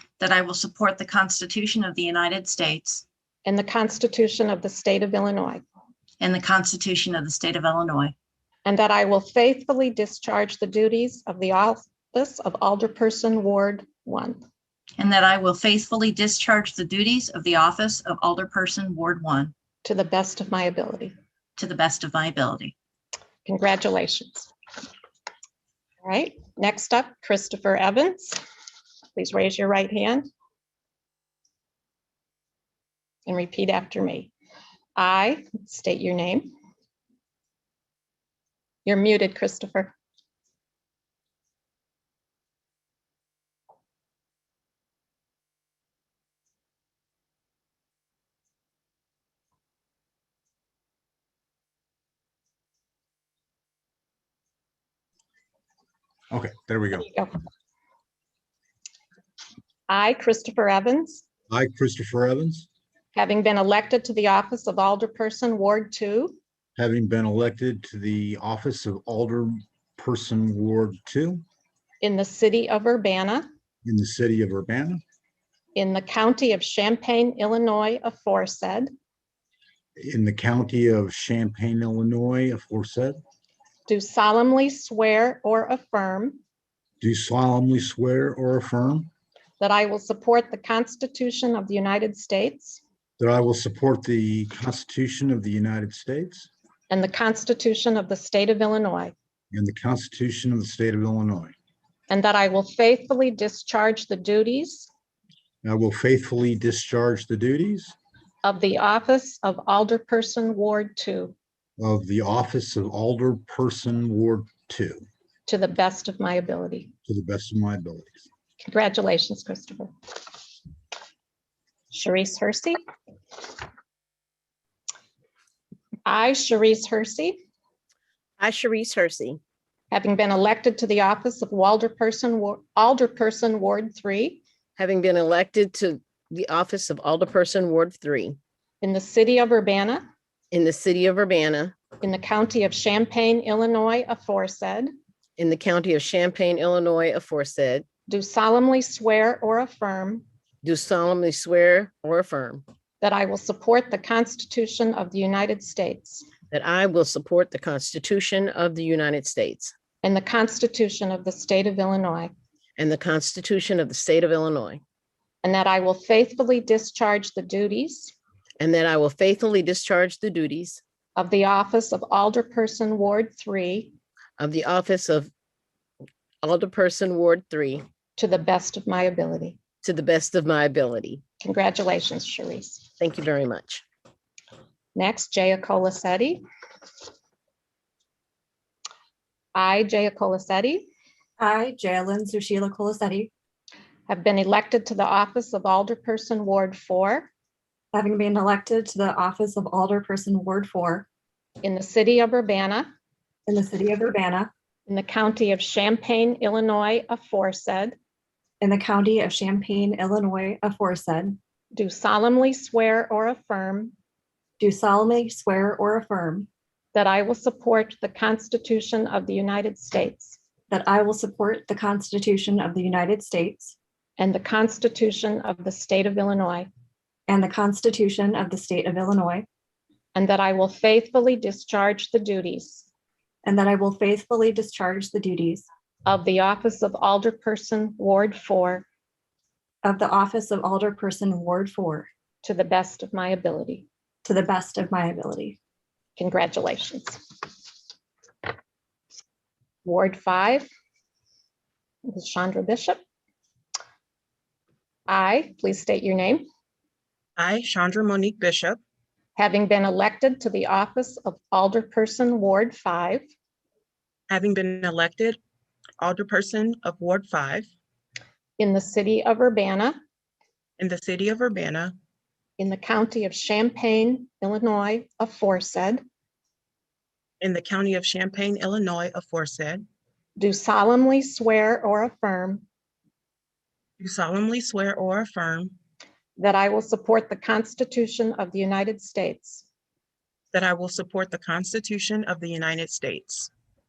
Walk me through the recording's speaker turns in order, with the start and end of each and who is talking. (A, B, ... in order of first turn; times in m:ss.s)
0:00.2-0:03.0 A
0:03.4-0:05.6 B
0:06.2-0:08.1 A
0:08.6-0:14.4 B
0:15.0-0:19.5 A
0:19.8-0:21.1 B
0:21.6-0:22.7 A
0:23.4-0:24.5 B
0:26.0-0:28.4 B
0:29.1-0:30.3 B
0:33.2-0:34.3 B
0:35.0-0:36.5 B
0:38.8-0:39.9 B
0:56.3-0:57.1 C
0:59.9-1:01.2 B
1:01.5-1:02.7 C
1:03.1-1:06.4 B
1:06.8-1:11.4 C
1:12.0-1:13.4 B
1:13.8-1:15.0 C
1:15.7-1:18.9 B
1:20.0-1:23.2 C
1:23.9-1:26.4 B
1:27.0-1:29.1 C
1:29.6-1:32.8 B
1:33.2-1:36.5 C
1:36.9-1:39.1 B
1:39.5-1:41.5 C
1:42.1-1:44.9 B
1:45.6-1:47.9 C
1:48.4-1:51.3 B
1:51.8-1:55.0 C
1:55.4-1:56.9 B
1:57.0-1:58.1 C
1:58.6-1:59.9 B
2:01.9-2:02.8 B
2:06.0-2:07.4 B
2:08.4-2:09.4 D
2:09.9-2:14.4 B
2:14.8-2:18.4 D
2:18.8-2:20.0 B
2:20.5-2:21.7 D
2:22.0-2:24.9 B
2:25.4-2:27.8 D
2:28.1-2:30.2 B
2:30.6-2:32.6 D
2:33.0-2:36.3 B
2:36.5-2:39.7 D
2:40.0-2:42.3 B
2:42.8-2:44.8 D
2:45.4-2:48.1 B
2:48.6-2:50.8 D
2:51.2-2:53.9 B
2:54.4-2:55.3 D
2:56.4-2:57.8 D
2:58.2-2:59.6 B
2:59.8-3:01.2 D
3:01.4-3:02.9 B
3:03.0-3:03.8 D
3:04.9-3:06.4 B
3:09.5-3:10.8 B
3:11.4-3:13.3 E
3:14.1-3:17.3 B
3:17.9-3:21.0 E
3:21.6-3:22.9 B
3:23.5-3:24.5 E
3:24.9-3:28.0 B
3:28.6-3:31.4 E
3:31.7-3:33.9 B
3:34.6-3:36.5 E
3:36.9-3:40.4 B
3:40.7-3:43.7 E
3:44.2-3:46.7 B
3:47.3-3:49.4 E
3:50.1-3:52.9 B
3:53.4-3:55.7 E
3:56.0-3:58.8 B
3:59.8-4:02.1 E
4:02.4-4:03.8 B
4:04.2-4:05.6 E
4:06.2-4:07.3 B
4:09.8-4:10.7 B
4:12.0-4:13.0 B
4:15.1-4:16.4 B
4:17.4-4:18.8 F
4:19.4-4:23.2 B
4:24.3-4:25.4 F
4:26.0-4:27.7 F
4:28.6-4:30.0 B
4:30.8-4:32.0 F
4:32.6-4:36.0 B
4:37.4-4:39.9 F
4:40.4-4:42.6 B
4:44.0-4:45.7 F
4:46.4-4:49.6 B
4:50.5-4:53.5 F